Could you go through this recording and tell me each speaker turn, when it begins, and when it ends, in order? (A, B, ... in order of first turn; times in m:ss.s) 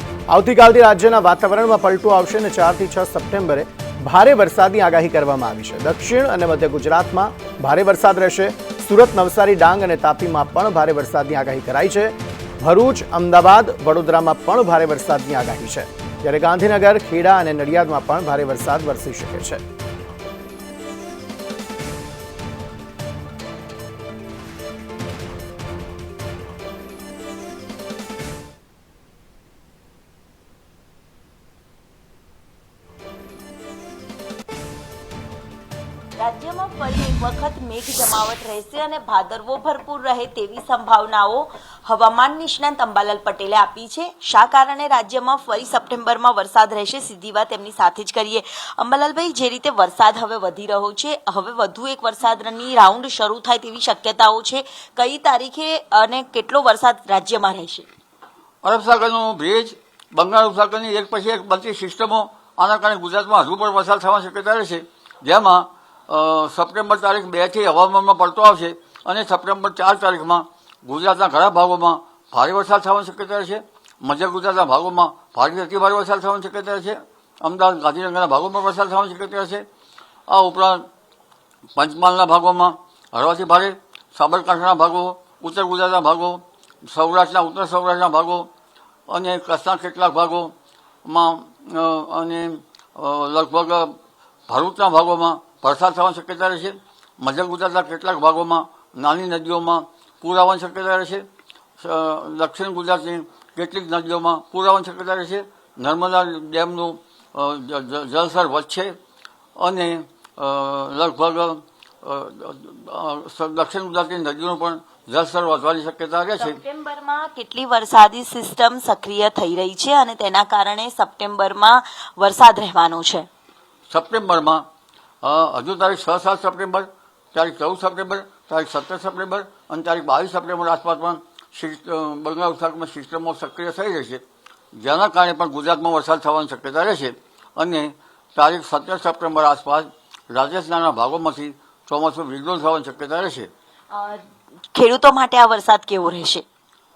0:00.3-0:19.6 A
0:36.2-0:57.9 B
0:58.6-1:19.6 C
1:20.3-1:20.9 C
1:21.8-1:28.5 C
1:29.1-1:30.5 C
1:31.0-1:41.2 C
1:41.8-1:49.0 C
1:49.6-1:56.6 C
1:56.4-2:03.3 B
2:03.9-2:04.7 C
2:05.2-2:14.2 C
2:14.8-2:23.5 C
2:23.9-2:26.4 B